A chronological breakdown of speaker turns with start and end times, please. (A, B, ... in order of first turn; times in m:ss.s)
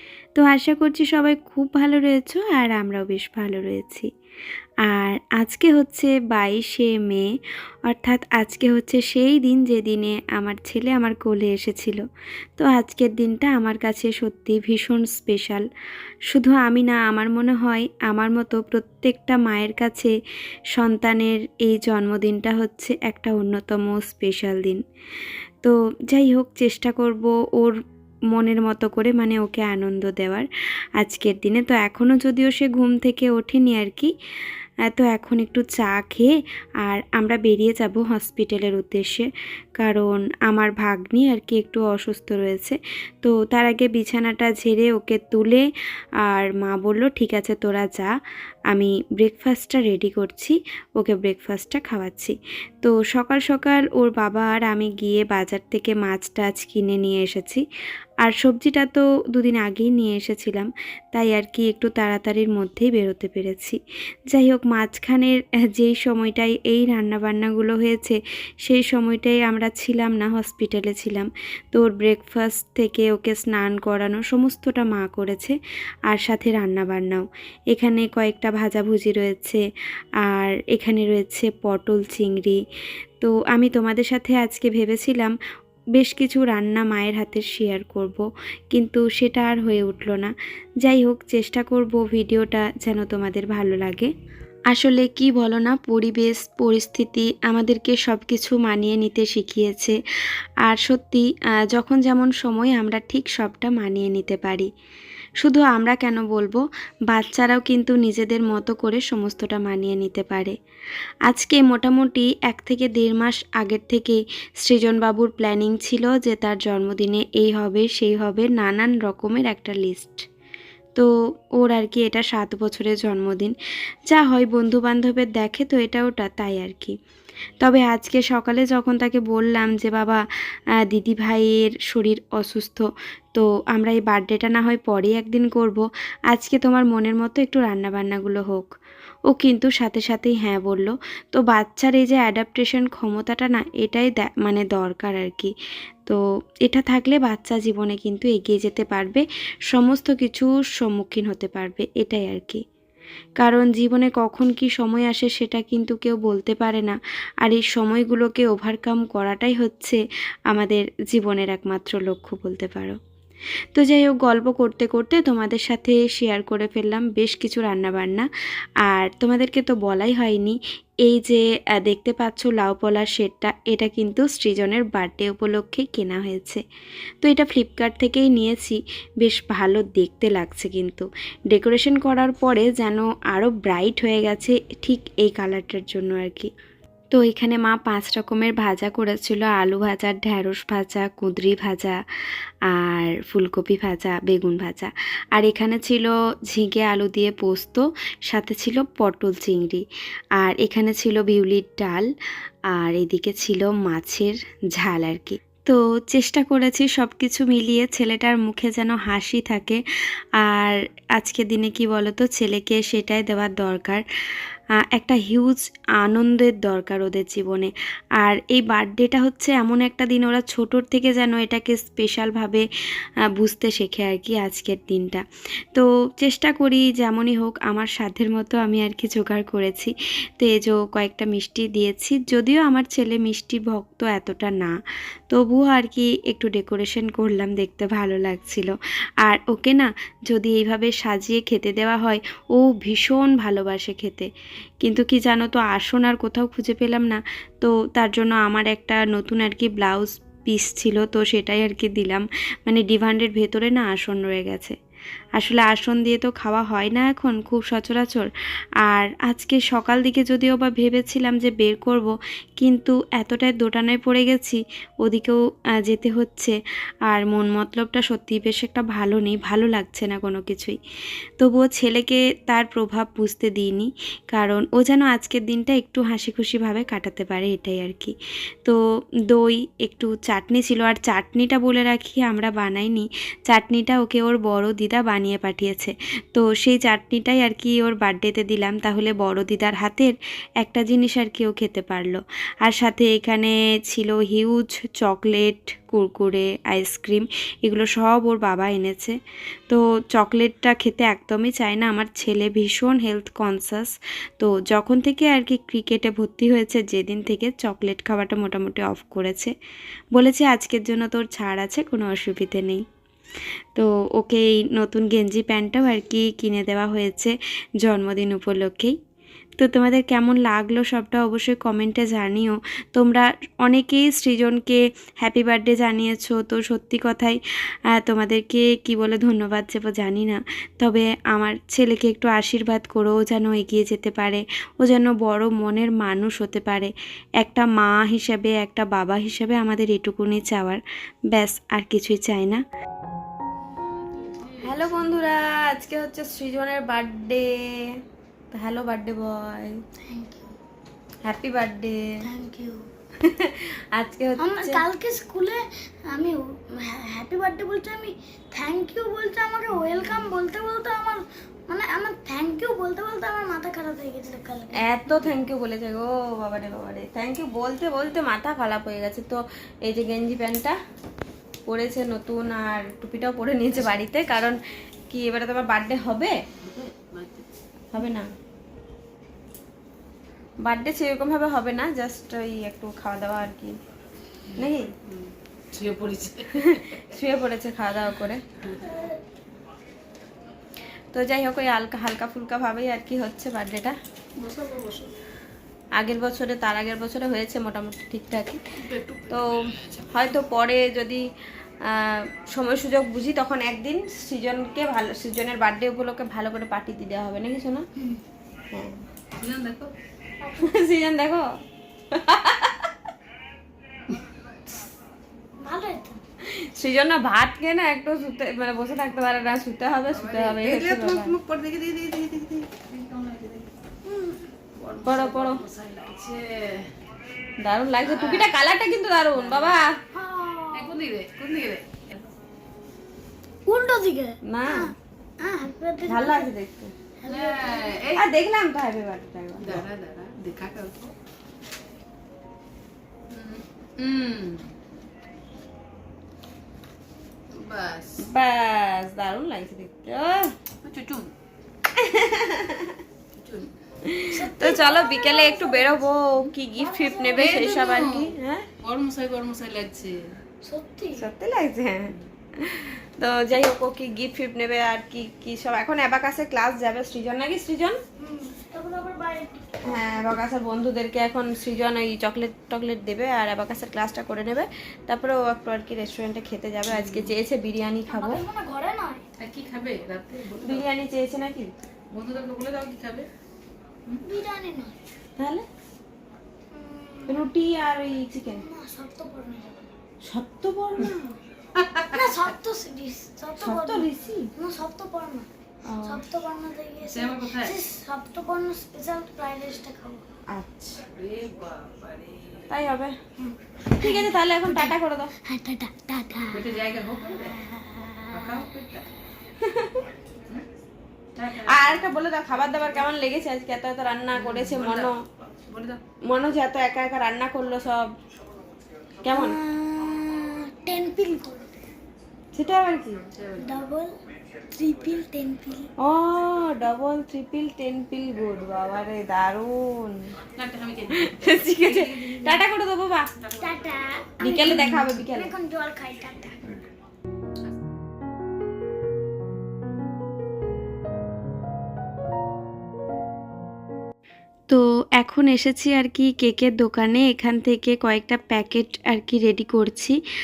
0:00.3-0:04.1 A
0:04.8-0:07.3 A
0:07.8-0:12.0 A
0:12.6-0:15.6 A
0:16.3-0:20.1 A
0:20.7-0:24.8 A
0:25.6-0:27.8 A
0:28.3-0:34.1 A
0:34.9-0:45.6 A
0:46.2-0:48.1 A
0:48.7-0:57.6 A
0:58.2-1:03.8 A
1:04.3-1:15.6 A
1:16.1-1:19.6 A
1:20.2-1:22.6 A
1:23.2-1:25.3 A
1:26.0-1:34.1 A
1:34.7-1:40.0 A
1:40.6-1:44.7 A
1:45.4-1:50.5 A
1:51.2-2:00.2 A
2:00.9-2:03.6 A
2:04.1-2:06.9 A
2:07.6-2:10.2 A
2:10.8-2:18.7 A
2:19.3-2:25.5 A
2:26.0-2:32.6 A
2:33.4-2:43.0 A
2:43.7-2:48.3 A
2:48.8-2:56.6 A
2:57.2-3:06.5 A
3:07.1-3:12.0 A
3:12.7-3:19.8 A
3:20.4-3:22.1 A
3:22.7-3:29.8 A
3:30.4-3:42.6 A
3:43.3-3:54.8 A
3:55.3-4:04.3 A
4:04.8-4:14.7 A
4:15.4-4:18.3 A
4:18.8-4:30.8 A
4:31.4-4:38.8 A
4:39.3-4:59.2 A
4:59.7-5:09.5 A
5:10.1-5:12.8 A
5:13.7-5:19.0 A
5:19.6-5:27.4 A
5:27.9-5:40.8 A
5:41.3-5:42.6 A
5:44.3-5:45.0 B
5:44.6-5:47.5 A
5:48.5-5:49.8 A
5:50.0-5:50.5 C
5:51.2-5:52.0 A
5:52.2-5:52.9 C
5:53.3-5:54.8 A
5:54.4-6:04.9 C
6:04.8-6:10.8 A
6:11.7-6:16.3 A
6:16.6-6:17.4 B
6:17.9-6:18.3 A
6:20.6-6:23.8 A
6:24.5-6:27.2 B
6:24.6-6:24.9 A
6:26.6-6:28.4 A
6:28.6-6:28.9 B
6:28.8-6:29.2 C
6:31.1-6:33.9 A
6:34.4-6:35.1 B
6:36.0-6:38.6 A
6:38.8-6:40.3 B
6:40.1-6:41.2 A
6:41.9-6:47.8 A
6:48.7-6:49.0 A
6:49.4-6:49.9 B
6:50.4-6:50.7 C
6:50.6-6:51.5 A
6:52.1-6:52.9 A
6:55.6-6:56.2 C
6:56.7-7:01.3 A
7:00.1-7:03.7 B
7:04.0-7:04.4 C
7:04.8-7:06.9 B
7:05.0-7:05.6 A
7:07.6-7:09.9 A
7:08.0-7:08.6 B
7:09.3-7:09.8 B
7:10.1-7:10.9 C
7:10.7-7:12.3 B
7:13.6-7:16.5 C
7:14.5-7:14.8 A
7:16.1-7:16.9 A
7:17.2-7:17.9 C
7:17.3-7:18.3 B
7:18.2-7:19.8 A
7:19.6-7:21.1 B
7:23.3-7:24.7 B
7:27.5-7:28.3 B
7:28.2-7:30.5 A
7:30.8-7:31.3 B
7:32.0-7:33.0 A
7:33.3-7:33.7 B
7:34.0-7:38.6 A
7:34.3-7:36.1 C
7:36.7-7:38.1 C
7:37.3-7:40.4 B
7:40.6-7:41.3 C
7:41.2-7:41.9 A
7:42.6-7:48.0 A
7:48.2-7:50.4 C
7:49.9-7:58.4 A
7:56.9-7:57.3 B
7:58.1-7:59.2 C
7:59.4-8:00.9 B
8:00.6-8:01.7 A
8:02.1-8:03.3 B
8:04.2-8:04.9 C
8:06.7-8:07.5 C
8:07.3-8:08.6 A
8:08.3-8:09.9 C
8:10.3-8:11.3 A
8:11.8-8:12.1 B
8:12.1-8:15.5 C
8:13.6-8:14.5 A
8:16.0-8:20.2 C
8:17.0-8:17.8 B
8:20.5-8:21.0 A
8:21.1-8:22.6 B
8:22.7-8:23.1 A
8:23.4-8:26.6 C
8:24.0-8:25.3 A
8:26.5-8:27.5 B
8:27.3-8:28.6 C
8:28.3-8:29.1 B
8:29.6-8:30.0 A
8:31.4-8:33.1 B
8:31.7-8:35.1 A
8:34.3-8:35.1 B
8:35.7-8:36.0 B
8:36.2-8:38.1 A
8:39.2-8:39.6 A
8:39.2-8:41.7 C
8:42.5-8:43.2 A
8:43.3-8:43.6 B
8:43.6-8:44.1 C
8:44.7-8:45.9 C
8:46.0-8:50.2 A
8:50.5-8:52.6 B
8:51.1-8:53.2 A
8:53.6-8:56.8 C
8:54.4-8:55.5 A
9:04.7-9:10.2 A